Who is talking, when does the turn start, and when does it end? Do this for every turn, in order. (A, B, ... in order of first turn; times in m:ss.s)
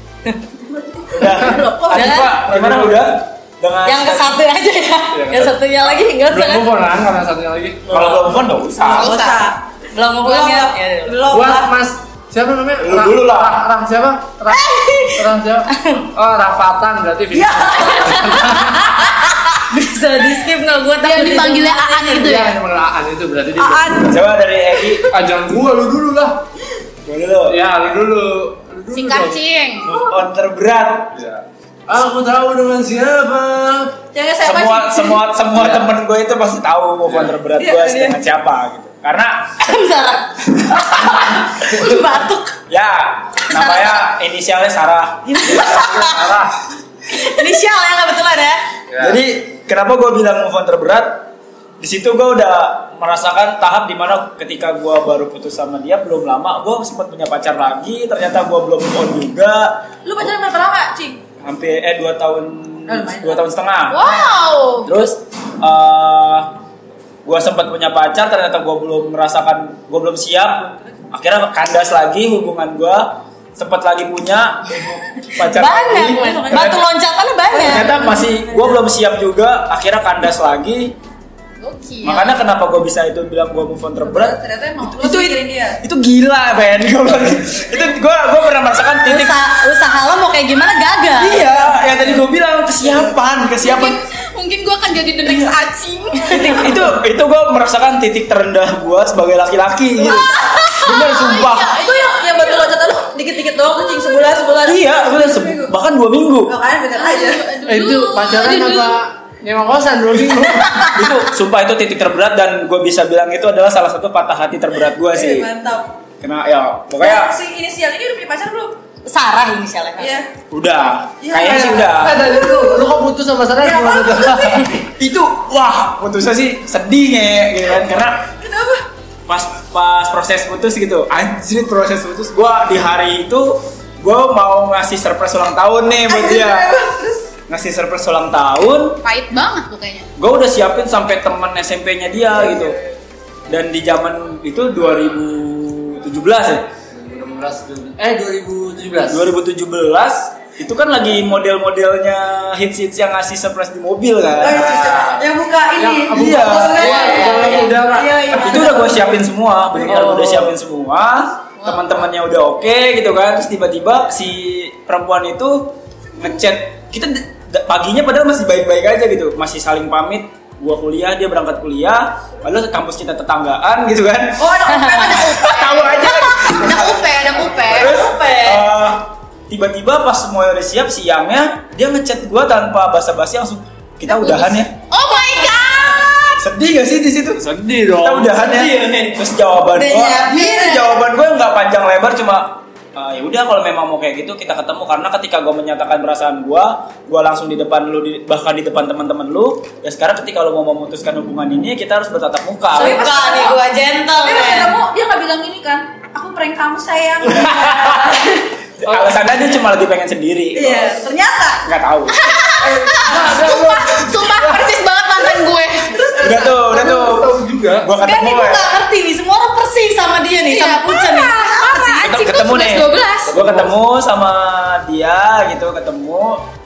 0:00.7-0:02.4 A
0:01.1-0:04.4 B
0:01.2-0:01.6 C
0:01.9-0:02.5 D
0:02.5-0:03.0 C
0:03.8-0:06.7 D
0:05.1-0:08.3 C
0:07.9-0:09.2 B
0:08.8-0:09.6 A
0:09.0-0:09.4 E
0:09.9-0:11.3 D
0:10.2-0:11.7 A
0:11.2-0:18.9 C
0:12.8-0:13.6 B
0:14.5-0:16.0 D
0:17.3-0:18.7 A
0:19.5-0:22.2 D
0:21.0-0:22.6 E
0:22.2-0:24.0 C
0:23.6-0:24.2 A
0:24.0-0:25.1 B
0:25.1-0:26.4 C
0:27.1-0:27.6 B
0:27.5-0:29.4 C
0:28.9-0:30.0 E
0:29.8-0:31.2 B
0:31.1-0:34.0 C
0:34.1-0:35.2 A
0:34.4-0:39.8 B
0:35.6-0:35.9 C
0:37.6-0:38.2 A
0:39.6-0:42.6 D
0:42.7-0:45.7 B
0:43.5-0:44.0 D
0:45.3-0:46.6 C
0:45.4-0:46.3 D
0:47.1-0:48.6 D
0:48.9-0:49.2 C
0:49.0-0:59.9 B
1:00.0-1:01.2 A
1:01.4-1:04.2 B
1:02.9-1:03.4 A
1:03.9-1:04.9 E
1:04.8-1:06.6 B
1:07.2-1:16.9 B
1:15.4-1:18.1 D
1:16.1-1:16.7 A
1:17.5-1:21.0 B
1:17.6-1:18.7 A
1:21.6-1:22.4 E
1:22.0-1:29.4 B
1:24.0-1:25.8 A
1:28.9-1:31.4 D
1:31.2-1:34.0 B
1:33.6-1:36.8 E
1:35.2-1:35.6 B
1:36.3-1:41.8 B
1:40.0-1:42.8 E
1:40.0-1:45.7 A
1:43.9-1:44.2 E
1:44.6-1:46.5 B
1:46.5-1:47.5 A
1:47.0-1:49.0 E
1:47.7-1:51.0 C
1:50.9-1:55.5 B
1:55.1-1:56.0 A
1:56.2-1:57.4 B
1:57.0-1:58.8 A
1:59.1-2:00.2 D
2:00.0-2:00.3 A
2:00.5-2:02.2 B
2:01.2-2:03.0 A
2:02.0-2:04.8 C
2:03.6-2:04.7 A
2:04.9-2:08.3 B
2:08.4-2:08.8 A
2:09.3-2:16.8 B
2:16.1-2:17.3 A
2:17.5-2:19.0 B
2:19.0-2:20.1 E
2:20.2-2:22.8 B
2:22.3-2:22.8 C
2:23.5-2:26.7 B
2:26.9-2:29.3 C
2:29.1-2:34.9 B
2:34.4-2:38.4 C
2:34.4-2:39.2 A
2:36.1-3:04.8 B
2:39.8-2:40.6 C
2:54.4-2:55.9 A
2:54.7-2:55.2 D
2:55.0-2:57.9 E
2:57.8-2:58.7 D
3:04.9-3:06.4 E
3:06.4-3:07.4 B
3:07.4-3:09.0 C
3:08.0-3:23.0 B
3:09.8-3:10.6 D
3:10.2-3:10.7 A
3:22.7-3:23.6 A
3:22.7-3:24.8 D
3:24.2-3:28.5 A
3:27.4-3:28.2 B
3:28.8-3:31.0 B
3:28.8-3:29.2 C
3:30.6-3:31.7 A
3:31.6-3:32.2 B
3:32.1-3:36.2 E
3:32.6-3:34.7 C
3:36.0-3:36.8 A
3:36.1-3:37.9 C
3:36.2-3:38.7 B
3:38.0-3:42.1 D
3:40.5-3:43.3 E
3:42.0-3:46.5 B
3:43.3-3:43.8 C